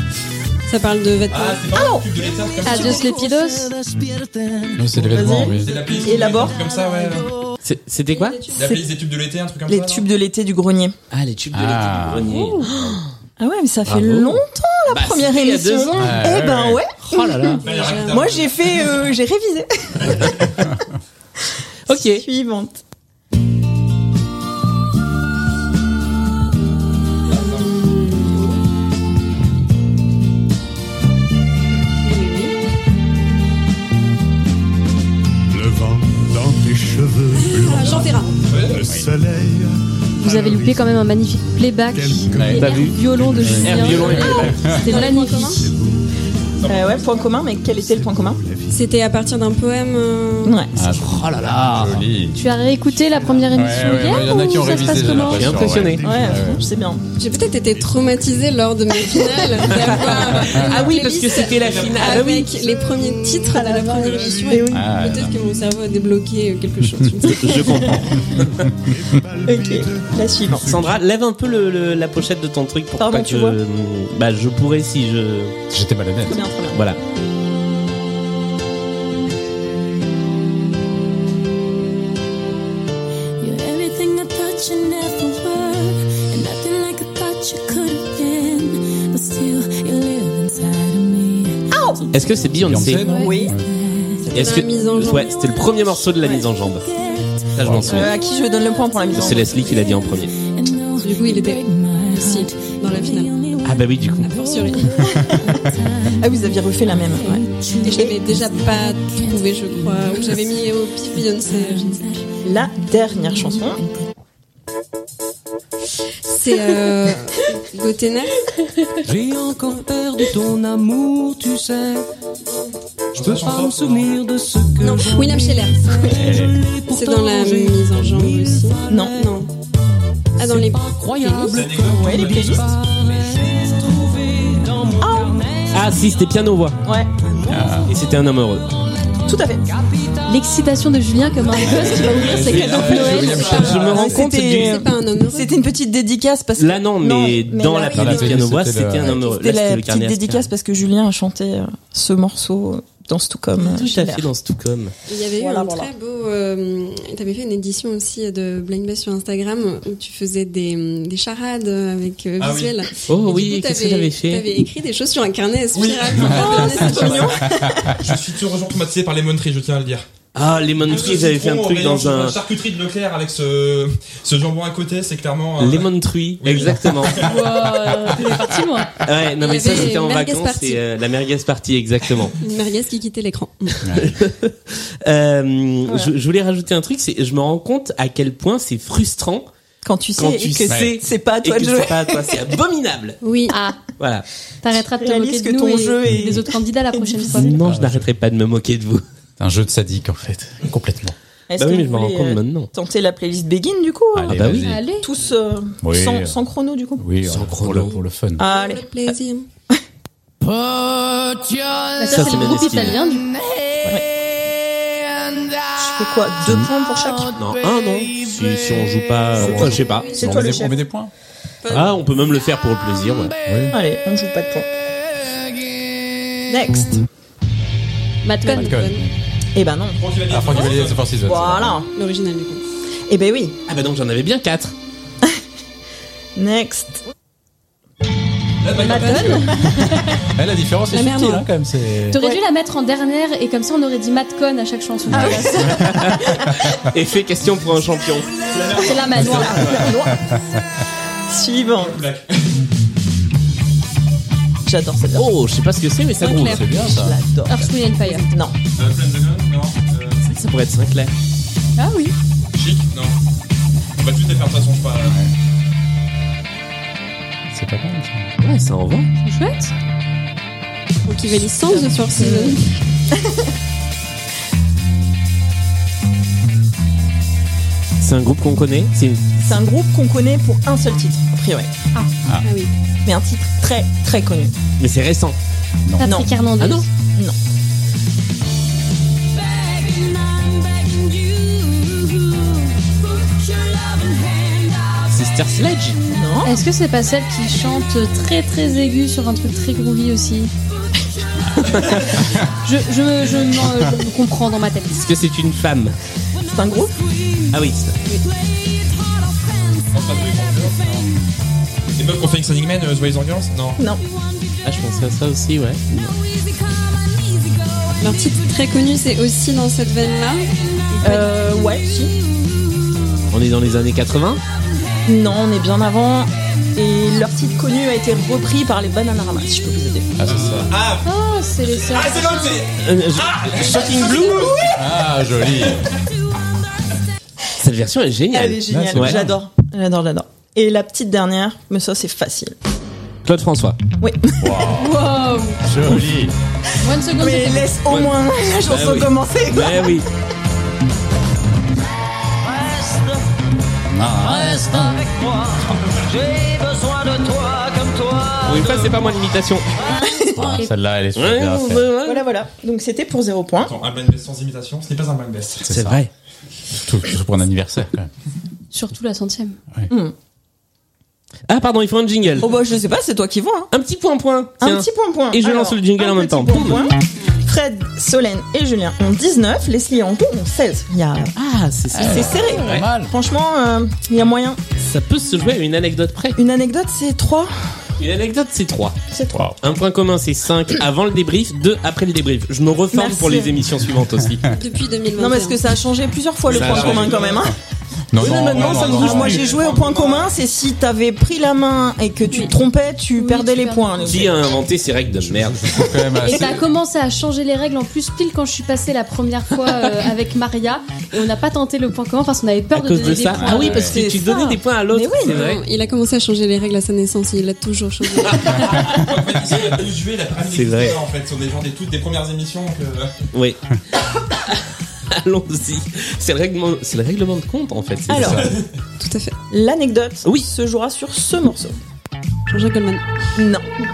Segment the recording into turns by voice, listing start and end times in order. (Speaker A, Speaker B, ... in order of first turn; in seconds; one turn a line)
Speaker A: 0.7-1.7
Speaker B: 1.3-3.0
Speaker C: 1.7-2.1
Speaker D: 2.6-4.8
Speaker E: 2.6-3.7
Speaker F: 4.7-5.8
Speaker C: 5.1-6.6
Speaker B: 5.5-7.3
Speaker G: 7.6-8.4
Speaker A: 8.1-8.8
Speaker B: 8.5-10.1
Speaker C: 9.7-10.9
Speaker G: 11.1-13.0
Speaker F: 11.5-12.5
Speaker C: 13.4-20.7
Speaker G: 13.8-16.2
Speaker F: 15.9-16.8
Speaker G: 17.0-17.6
Speaker A: 17.6-18.3
Speaker B: 17.6-18.9
Speaker G: 21.9-22.2
Speaker C: 21.9-22.8
Speaker A: 27.3-28.6
Speaker B: 27.3-27.7
Speaker A: 32.0-32.5
Speaker H: 35.5-40.8
Speaker A: 37.3-38.4
Speaker B: 38.5-38.9
Speaker F: 38.8-39.1
Speaker E: 40.2-45.7
Speaker H: 41.9-44.0
Speaker F: 42.3-42.7
Speaker G: 42.5-43.0
Speaker F: 43.3-44.9
Speaker G: 43.5-44.6
Speaker A: 43.9-45.7
Speaker H: 45.1-46.1
Speaker B: 46.6-47.0
Speaker C: 46.7-48.4
Speaker H: 47.6-48.9
Speaker A: 48.7-50.6
Speaker C: 50.4-50.7
Speaker F: 50.7-52.4
Speaker G: 51.0-52.0
Speaker E: 52.3-55.5
Speaker H: 53.1-56.6
Speaker F: 53.5-56.6
Speaker G: 55.2-56.0
Speaker C: 56.0-57.0
Speaker A: 57.2-67.8
Speaker H: 57.7-58.2
Speaker G: 59.7-62.6
Speaker B: 61.5-62.1
Speaker C: 63.5-65.0
Speaker F: 64.7-65.3
Speaker G: 67.2-68.6
Speaker C: 67.4-68.0
Speaker H: 68.7-71.0
Speaker C: 69.4-70.7
Speaker G: 70.6-75.5
Speaker C: 73.0-73.6
Speaker F: 75.7-76.4
Speaker C: 76.2-76.8
Speaker G: 76.7-77.0
Speaker I: 83.4-91.5
Speaker C: 91.7-92.1
Speaker G: 92.1-93.1
Speaker F: 92.5-93.7
Speaker C: 93.1-93.5
Speaker C: 94.3-94.6
Speaker A: 94.3-95.4
Speaker G: 94.3-96.9
Speaker G: 97.5-98.1
Speaker F: 97.6-98.1
Speaker C: 97.8-99.7
Speaker G: 99.1-100.3
Speaker I: 100.7-102.2
Speaker A: 101.0-103.4
Speaker G: 103.6-104.3
Speaker A: 104.2-105.1
Speaker C: 105.0-105.5
Speaker C: 106.2-108.2
Speaker I: 107.4-107.7
Speaker A: 107.8-112.2
Speaker I: 108.4-108.7
Speaker C: 112.4-113.8
Speaker A: 116.3-118.5
Speaker D: 119.0-122.0
Speaker B: 123.1-124.2
Speaker D: 123.2-129.1
Speaker A: 124.8-126.2
Speaker F: 126.1-126.5
Speaker A: 126.9-129.5
Speaker C: 128.9-129.2
Speaker A: 130.4-131.7
Speaker D: 130.4-135.7
Speaker B: 131.5-132.7
Speaker C: 132.0-132.6
Speaker C: 135.0-135.4
Speaker G: 135.7-136.8
Speaker C: 136.8-137.1
Speaker F: 137.5-137.9
Speaker G: 137.9-138.7
Speaker C: 139.2-139.6
Speaker E: 140.2-143.6
Speaker F: 141.8-144.2
Speaker B: 142.2-143.5
Speaker A: 142.8-145.6
Speaker G: 143.1-144.8
Speaker C: 143.1-148.4
Speaker G: 146.6-150.5
Speaker F: 147.9-149.2
Speaker C: 149.0-154.3
Speaker G: 153.6-154.9
Speaker A: 155.1-167.4
Speaker C: 155.4-155.9
Speaker B: 162.4-162.8
Speaker G: 163.1-164.4
Speaker B: 165.7-170.0
Speaker C: 166.3-168.0
Speaker F: 167.5-167.9
Speaker G: 170.3-172.4
Speaker B: 170.8-177.5
Speaker G: 175.6-177.2
Speaker E: 177.1-179.0
Speaker G: 179.0-182.3
Speaker A: 179.4-180.8
Speaker A: 182.4-183.8
Speaker F: 183.8-184.1
Speaker G: 183.9-189.5
Speaker C: 185.8-186.1
Speaker C: 189.8-192.4
Speaker G: 190.2-193.2
Speaker F: 190.7-190.9
Speaker A: 193.2-193.6
Speaker E: 193.5-193.8
Speaker G: 194.0-194.2
Speaker E: 194.6-197.6
Speaker C: 194.8-197.5
Speaker G: 197.3-199.0
Speaker F: 197.6-198.1
Speaker F: 199.4-201.1
Speaker C: 201.5-207.1
Speaker G: 201.6-202.7
Speaker F: 204.1-204.8
Speaker G: 204.3-204.7
Speaker E: 204.6-205.1
Speaker F: 205.8-206.4
Speaker F: 207.0-208.4
Speaker G: 207.2-208.0
Speaker C: 208.4-209.1
Speaker A: 208.4-209.4
Speaker D: 210.4-212.2
Speaker E: 212.0-213.3
Speaker G: 212.1-213.0
Speaker C: 215.8-217.4
Speaker F: 216.4-216.7
Speaker G: 217.3-220.1
Speaker F: 219.4-221.1
Speaker C: 219.4-220.8
Speaker A: 219.7-220.6
Speaker A: 221.6-222.0
Speaker G: 221.7-223.3
Speaker F: 223.4-223.8
Speaker C: 223.7-224.7
Speaker C: 226.5-227.0
Speaker E: 228.2-228.8
Speaker A: 228.4-229.1
Speaker F: 228.5-229.1
Speaker C: 229.5-230.0
Speaker B: 230.0-231.3
Speaker F: 230.3-231.8
Speaker C: 231.2-231.9
Speaker A: 231.9-232.6
Speaker C: 233.1-233.5
Speaker G: 233.7-234.7
Speaker C: 236.3-237.0
Speaker B: 238.6-239.4
Speaker C: 238.7-239.8
Speaker A: 238.8-239.5
Speaker F: 239.1-242.2
Speaker A: 240.9-241.4
Speaker E: 242.1-245.8
Speaker F: 245.1-246.1
Speaker C: 245.1-246.3
Speaker G: 245.7-248.3
Speaker B: 248.5-249.5
Speaker E: 248.7-249.8
Speaker C: 249.0-250.2
Speaker F: 249.6-250.1
Speaker C: 251.3-252.0
Speaker B: 251.8-252.4
Speaker C: 254.7-255.3
Speaker G: 255.1-256.6
Speaker A: 256.3-256.6
Speaker F: 256.3-257.2
Speaker C: 256.5-258.5
Speaker E: 257.5-258.3
Speaker B: 258.8-260.3
Speaker G: 260.2-261.1
Speaker E: 261.8-262.1
Speaker B: 262.5-263.1
Speaker B: 264.0-265.2
Speaker F: 265.1-265.3
Speaker F: 267.5-268.3
Speaker G: 268.4-269.1
Speaker E: 269.2-269.7
Speaker A: 271.1-272.8
Speaker C: 271.4-272.6
Speaker C: 273.1-273.5
Speaker G: 278.0-279.4
Speaker C: 279.4-281.7
Speaker A: 282.4-282.7
Speaker C: 283.0-284.5
Speaker G: 284.8-285.4
Speaker F: 285.9-286.1
Speaker E: 286.0-286.9
Speaker C: 286.0-286.3
Speaker G: 286.6-286.9
Speaker G: 295.1-296.0
Speaker C: 296.1-296.6
Speaker E: 296.4-300.5
Speaker G: 301.6-302.1
Speaker F: 302.2-302.4
Speaker E: 302.6-305.0
Speaker G: 304.9-305.9
Speaker C: 306.5-307.0
Speaker G: 307.5-307.9
Speaker B: 309.9-311.1
Speaker B: 311.9-313.8
Speaker C: 313.8-314.0
Speaker G: 314.6-316.1
Speaker A: 318.0-321.4
Speaker C: 321.0-322.1
Speaker G: 323.3-324.4
Speaker C: 325.1-330.1
Speaker F: 330.2-330.7
Speaker B: 330.2-334.7
Speaker E: 331.0-332.6
Speaker G: 332.7-334.6
Speaker F: 334.7-335.8
Speaker G: 337.6-339.2
Speaker C: 338.3-342.5
Speaker F: 338.7-339.4
Speaker G: 343.2-343.8
Speaker C: 344.0-344.7
Speaker F: 344.4-345.0
Speaker E: 344.7-345.6
Speaker F: 345.6-346.3
Speaker E: 346.8-347.8
Speaker C: 346.9-350.0
Speaker G: 347.9-350.1
Speaker D: 352.4-353.2
Speaker F: 353.9-355.1
Speaker D: 354.1-359.1
Speaker G: 358.4-359.7
Speaker D: 359.8-360.1
Speaker C: 359.9-360.6
Speaker F: 360.3-361.9
Speaker G: 361.1-362.2
Speaker C: 362.0-363.7
Speaker B: 363.6-365.7
Speaker F: 365.6-366.0
Speaker G: 365.7-366.1
Speaker F: 366.8-368.1
Speaker E: 368.7-369.6
Speaker C: 369.9-370.1
Speaker G: 371.5-372.5
Speaker C: 372.4-373.7
Speaker G: 373.7-376.9
Speaker C: 374.6-381.3
Speaker G: 381.4-382.9
Speaker F: 381.9-383.1
Speaker C: 382.0-384.6
Speaker G: 384.8-386.4
Speaker C: 386.4-387.7
Speaker G: 388.0-389.0
Speaker C: 389.1-389.4
Speaker F: 389.3-389.6
Speaker G: 389.6-394.4
Speaker C: 392.9-393.6
Speaker F: 394.0-394.5
Speaker A: 394.5-395.6
Speaker C: 395.2-397.5
Speaker B: 396.5-397.5
Speaker G: 396.5-397.2
Speaker F: 398.1-399.4
Speaker G: 398.2-399.4
Speaker B: 398.2-400.3
Speaker C: 398.2-404.5
Speaker A: 402.3-402.5
Speaker E: 403.1-404.3
Speaker G: 404.0-405.8
Speaker F: 405.1-406.6
Speaker E: 406.1-414.0
Speaker G: 412.7-415.6
Speaker F: 413.3-414.0
Speaker C: 413.6-415.4
Speaker A: 415.2-418.8
Speaker B: 418.4-423.1
Speaker G: 420.5-421.0
Speaker G: 423.3-423.6
Speaker G: 425.1-428.5
Speaker C: 428.1-428.6
Speaker F: 428.2-428.5
Speaker B: 428.3-428.6
Speaker A: 429.0-429.4
Speaker C: 429.5-431.8
Speaker A: 432.5-433.0
Speaker C: 433.4-433.6